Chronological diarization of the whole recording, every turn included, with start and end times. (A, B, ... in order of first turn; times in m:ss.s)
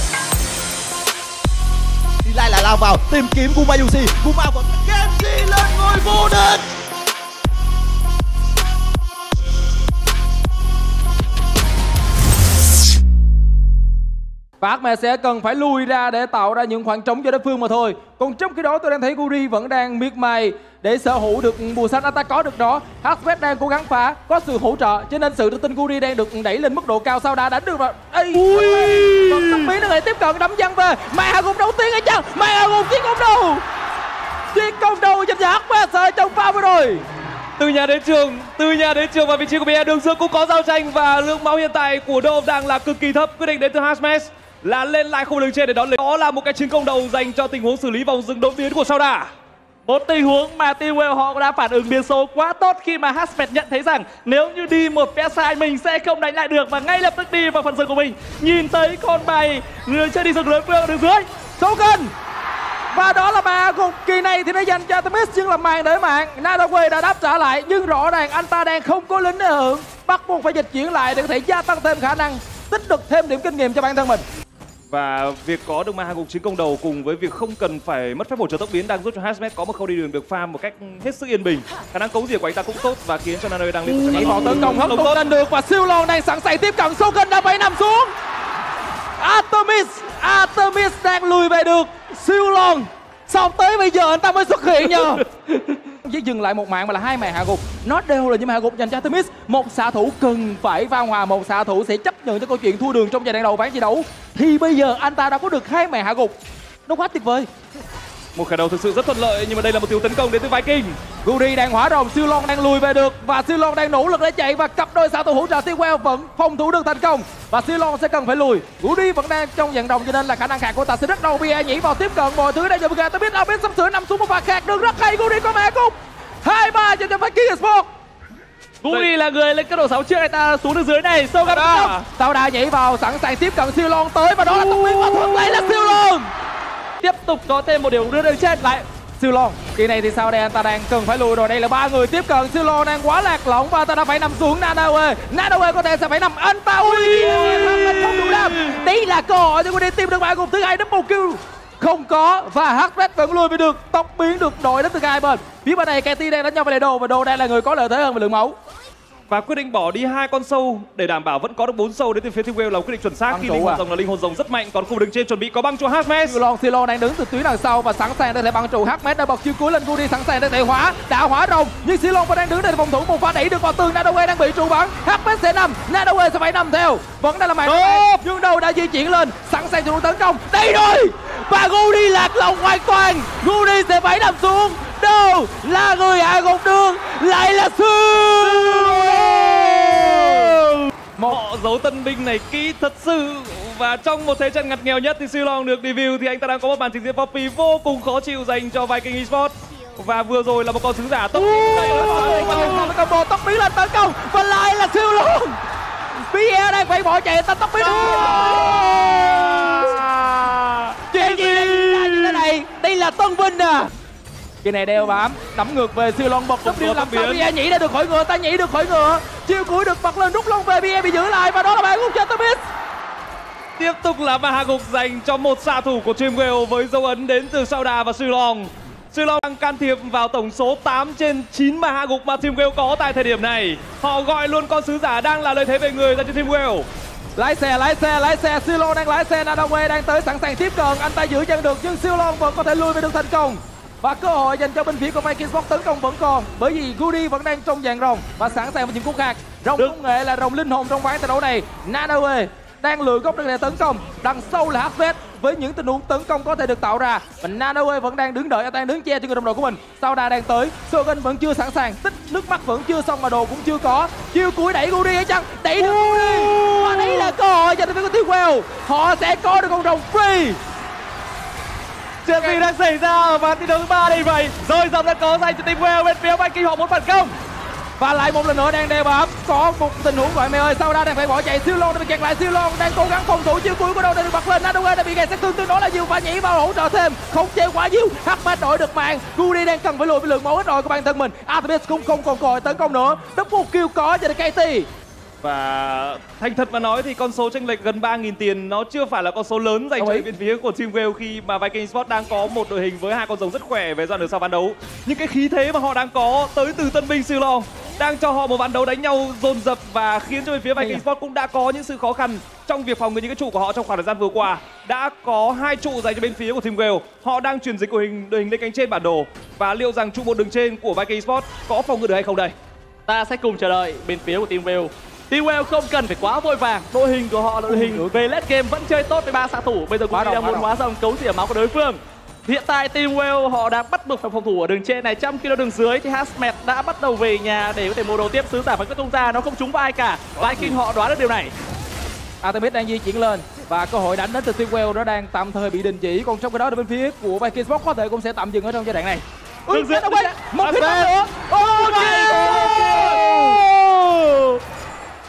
0:02.2-0:06.6 A
0:14.6-0:33.6 B
0:28.6-0:29.1 C
0:34.5-0:37.0 B
0:37.6-0:49.3 D
0:49.8-1:01.2 C
1:01.6-1:02.1 B
1:02.9-1:14.2 B
1:14.9-1:25.2 D
1:24.1-1:28.1 B
1:29.2-1:35.2 B
1:35.8-1:46.3 B
1:46.9-1:47.5 B
1:48.3-1:51.0 D
1:51.2-2:07.9 B
2:08.8-2:11.9 C
2:11.4-2:12.0 D
2:12.0-2:16.3 B
2:14.7-2:16.0 C
2:17.0-2:18.8 C
2:19.2-2:38.6 B
2:27.2-2:28.5 C
2:39.3-2:46.4 D
2:43.3-2:43.8 B
2:46.2-3:09.2 B
2:57.7-2:58.0 C
3:08.5-3:10.5 D
3:10.0-3:10.3 B
3:11.3-3:22.9 D
3:21.3-3:25.6 B
3:26.2-3:30.0 B
3:31.0-3:33.9 B
3:34.6-3:42.6 B
3:36.6-3:37.5 D
3:43.8-3:56.9 D
3:57.4-4:30.6 B
4:25.8-4:27.3 C
4:32.2-4:37.4 C
4:38.0-4:54.9 B
4:55.4-5:22.5 D
5:00.0-5:00.3 B
5:10.8-5:11.0 B
5:23.1-5:41.5 C
5:27.7-5:28.1 B
5:30.1-5:30.7 B
5:40.4-5:40.8 D
5:42.4-5:53.2 B
5:49.7-5:51.1 D
5:51.6-5:54.5 C
5:52.1-5:53.3 D